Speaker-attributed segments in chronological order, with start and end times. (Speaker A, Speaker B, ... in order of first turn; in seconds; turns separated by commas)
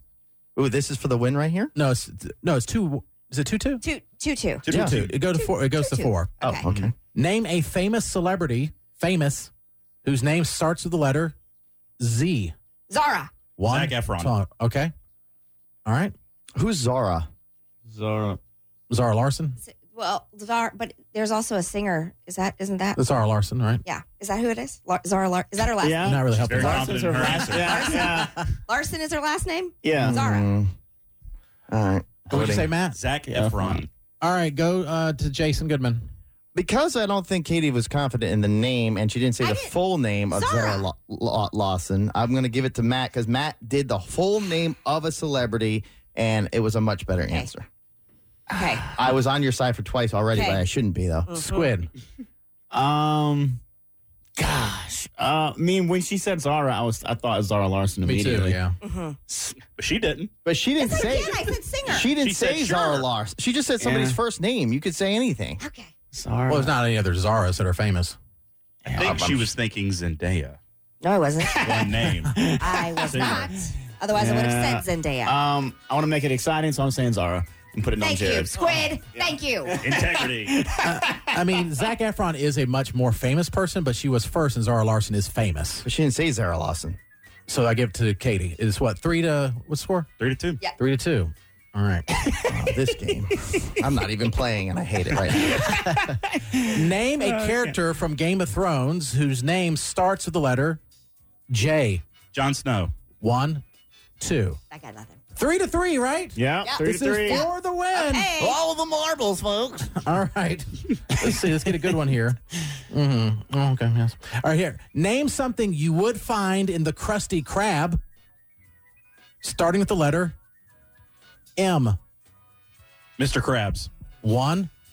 Speaker A: 0.6-1.7, Speaker B: 1.7-3.8, Speaker C: 3.8-4.7, Speaker D: 4.6-5.1, Speaker B: 4.7-6.3, Speaker A: 4.7-5.0, Speaker C: 5.4-6.7, Speaker A: 6.4-6.9, Speaker B: 7.1-9.5, Speaker B: 10.0-11.3, Speaker B: 12.0-12.5, Speaker C: 12.9-13.3, Speaker B: 13.6-14.9, Speaker D: 13.7-14.3, Speaker B: 15.8-16.1, Speaker A: 16.5-17.3, Speaker E: 17.9-18.4, Speaker B: 18.9-19.6, Speaker C: 19.6-23.0, Speaker B: 22.9-23.8, Speaker C: 23.8-26.2, Speaker E: 25.8-28.4, Speaker B: 26.0-26.9, Speaker D: 26.3-28.0, Speaker C: 27.6-30.5, Speaker E: 29.8-30.1, Speaker A: 30.0-30.7, Speaker A: 31.7-32.7, Speaker B: 32.3-33.0, Speaker D: 32.9-33.9, Speaker E: 33.3-33.8, Speaker B: 34.2-36.0, Speaker A: 36.5-47.7, Speaker C: 39.4-39.7, Speaker C: 40.3-40.9, Speaker C: 48.5-48.8, Speaker A: 48.9-51.3, Speaker C: 50.3-50.7, Speaker C: 51.3-51.7, Speaker B: 51.3-51.9, Speaker E: 52.7-53.6, Speaker E: 54.4-58.6, Speaker B: 58.0-58.8, Speaker C: 58.8-59.2, Speaker E: 59.3-59.5, Speaker D: 59.6-60.3, Speaker A: 60.4-65.6, Speaker C: 60.8-62.1, Speaker D: 62.1-63.1, Speaker E: 63.8-64.2, Speaker C: 65.6-65.9, Speaker E: 66.1-66.8, Speaker B: 66.5-68.2, Speaker D: 68.8-70.6, Speaker E: 68.9-69.2, Speaker A: 69.0-69.5, Speaker C: 71.0-71.8, Speaker E: 71.4-73.5, Speaker D: 71.6-72.4, Speaker C: 72.5-75.4, Speaker D: 73.0-73.5, Speaker E: 74.1-78.6, Speaker C: 78.0-79.7, Speaker E: 79.1-81.4, Speaker D: 79.8-80.6, Speaker B: 80.8-85.8, Speaker A: 85.8-87.0, Speaker B: 87.5-90.1, Speaker D: 90.2-90.6, Speaker B: 90.8-92.0, Speaker C: 92.2-92.5, Speaker A: 92.5-95.7, Speaker E: 95.5-96.7, Speaker B: 95.7-100.8, Speaker B: 101.5-102.0, Speaker D: 102.3-102.9, Speaker B: 103.2-103.6, Speaker B: 104.2-104.6, Speaker C: 104.7-105.2, Speaker B: 105.3-108.3, Speaker E: 106.3-107.4, Speaker C: 106.6-108.6, Speaker E: 108.4-110.0, Speaker B: 109.9-118.0, Speaker E: 111.2-111.5, Speaker B: 119.4-120.3, Speaker B: 121.5-122.0, Speaker D: 123.2-123.9, Speaker B: 124.2-124.7